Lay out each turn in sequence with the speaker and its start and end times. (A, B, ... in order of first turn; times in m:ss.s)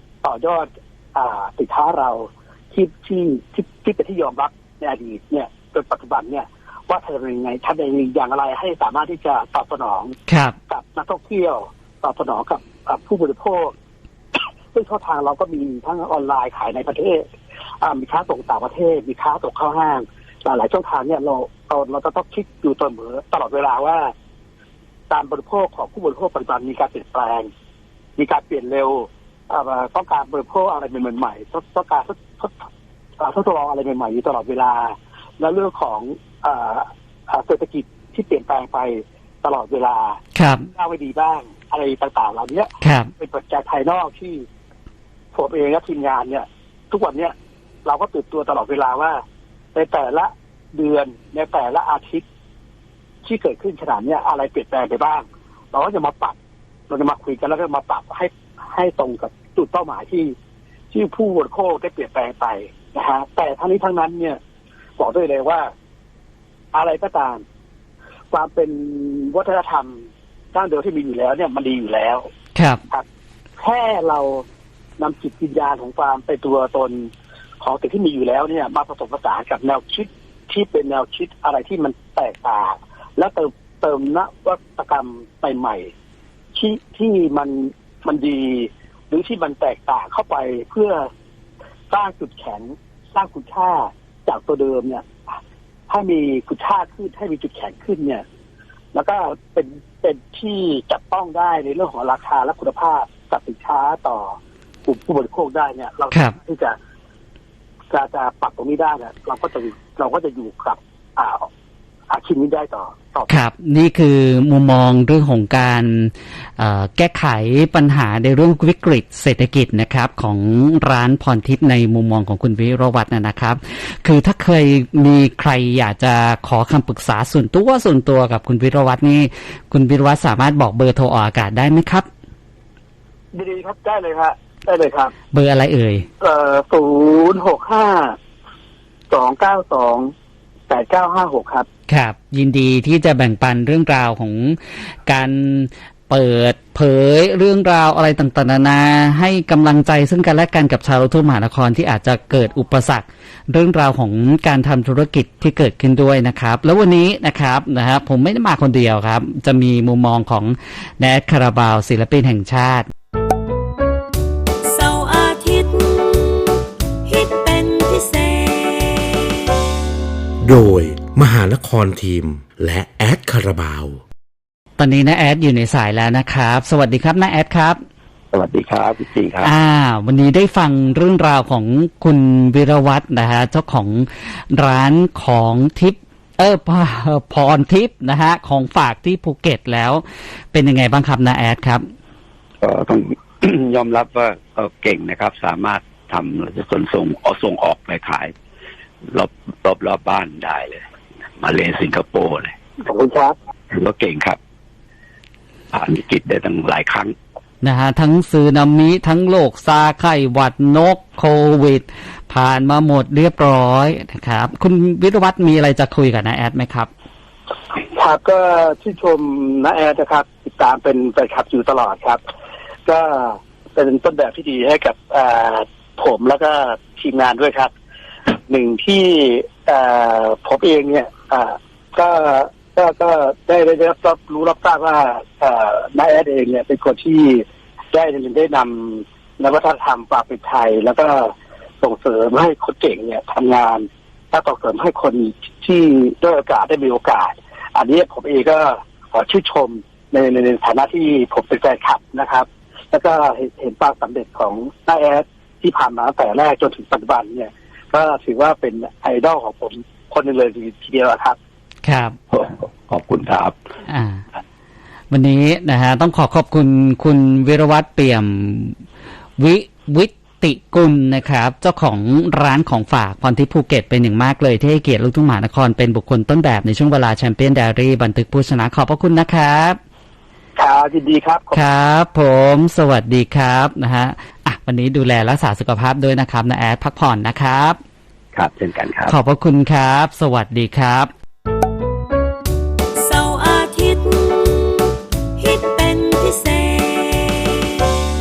0:00.2-0:10.2 A
0:10.3-0:10.6 B
0:10.7-0:13.7 A
0:14.4-0:17.2 A
0:17.8-0:24.1 A
0:25.1-0:27.5 A
0:28.2-0:32.7 A
0:33.2-0:44.5 A
0:40.4-0:40.7 B
0:42.8-0:43.1 B
0:45.3-0:49.2 A
0:49.8-0:52.2 A
0:53.2-0:56.4 A
0:56.9-1:00.4 A
1:00.9-1:04.4 A
1:05.0-1:05.7 A
1:06.7-1:07.4 A
1:08.3-1:12.3 A
1:12.6-1:12.8 B
1:13.6-1:14.4 A
1:15.0-1:25.9 A
1:26.5-1:31.1 A
1:31.9-1:35.4 A
1:35.9-1:38.2 A
1:38.9-1:46.8 A
1:47.9-1:51.5 A
1:52.1-1:53.4 A
1:53.3-2:12.1 B
2:13.3-2:15.1 A
2:15.3-2:16.1 B
2:16.2-2:18.2 A
2:19.1-2:20.1 A
2:20.7-2:21.7 A
2:21.9-2:42.9 B
2:44.6-2:49.4 C
2:50.4-2:54.0 D
2:54.8-2:57.8 B
2:58.3-2:59.5 E
2:59.4-3:11.8 B
3:12.6-3:18.4 E
3:19.1-3:20.9 E
3:21.4-3:22.6 E
3:22.8-3:23.4 A
3:23.7-3:24.4 E
3:25.7-3:27.2 E
3:27.6-3:36.9 B
3:37.8-3:42.2 A
3:42.9-3:47.7 A
3:48.3-4:21.4 A
4:21.8-4:22.2 B
4:22.3-4:23.6 E
4:23.9-4:24.2 B
4:25.1-4:28.8 B
4:29.4-4:39.8 B
4:40.6-4:41.6 A
4:41.5-4:47.8 B
4:48.4-4:49.2 E
4:49.1-4:51.1 B
4:53.0-4:57.6 C